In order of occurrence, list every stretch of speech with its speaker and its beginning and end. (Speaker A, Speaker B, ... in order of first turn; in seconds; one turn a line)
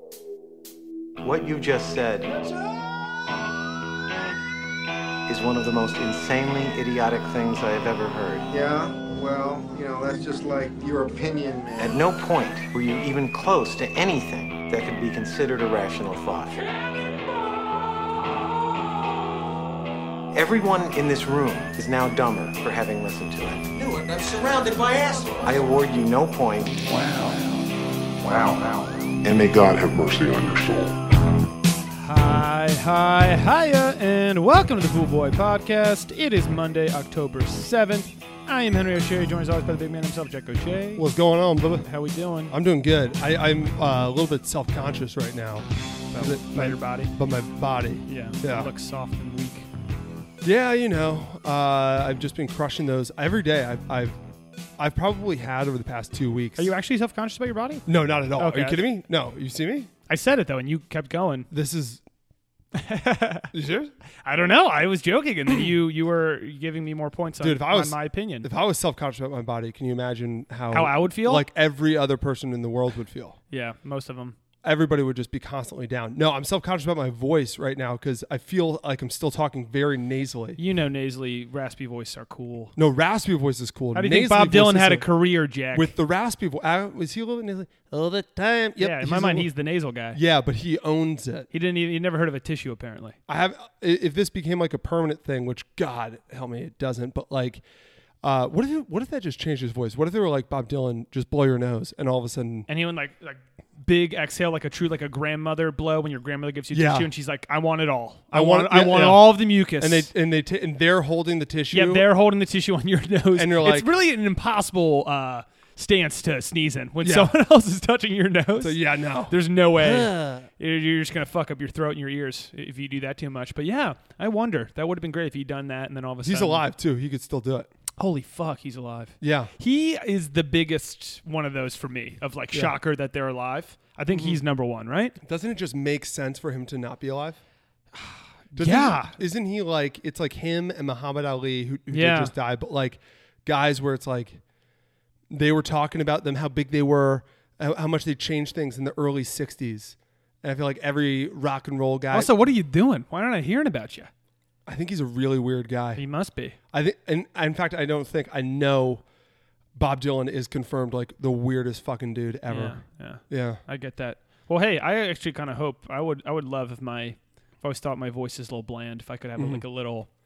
Speaker A: 1.2-2.3
Speaker A: 5.3-8.4
Speaker B: 8.5-12.0
Speaker A: 11.8-16.7
Speaker A: 20.3-23.7
Speaker C: 23.8-25.7
Speaker A: 25.4-26.8
Speaker D: 27.0-27.4
Speaker D: 28.3-28.6
Speaker D: 29.2-31.0
Speaker E: 32.0-41.1
Speaker F: 41.0-41.9
Speaker E: 41.8-42.5
Speaker F: 42.5-48.7
Speaker E: 46.1-47.1
Speaker E: 48.1-49.7
Speaker F: 50.4-54.2
Speaker F: 54.8-56.7
Speaker E: 56.6-57.9
Speaker F: 57.9-59.9
Speaker E: 58.4-58.8
Speaker E: 60.1-61.5
Speaker F: 61.5-62.0
Speaker E: 62.8-63.5
Speaker F: 63.5-63.9
Speaker E: 64.2-68.5
Speaker F: 67.4-73.4
Speaker E: 70.7-71.5
Speaker E: 73.5-74.4
Speaker F: 74.6-80.6
Speaker E: 80.6-82.8
Speaker F: 82.8-85.1
Speaker E: 83.9-85.9
Speaker F: 85.7-89.5
Speaker E: 88.8-90.2
Speaker F: 90.1-91.5
Speaker E: 91.5-93.2
Speaker F: 93.3-97.6
Speaker F: 98.2-102.7
Speaker E: 102.7-110.1
Speaker F: 106.7-107.1
Speaker F: 108.3-112.1
Speaker E: 111.7-126.6
Speaker F: 113.3-113.9
Speaker F: 117.0-117.3
Speaker F: 118.6-120.5
Speaker F: 126.2-127.7
Speaker E: 128.0-135.2
Speaker F: 129.2-129.5
Speaker F: 134.1-134.4
Speaker F: 135.2-137.4
Speaker F: 138.5-144.4
Speaker E: 138.6-139.2
Speaker E: 141.9-142.3
Speaker F: 145.3-152.3
Speaker E: 152.1-154.1
Speaker F: 154.7-156.0
Speaker E: 156.0-156.6
Speaker F: 156.7-159.0
Speaker F: 159.8-163.6
Speaker E: 162.5-170.1
Speaker F: 169.4-169.6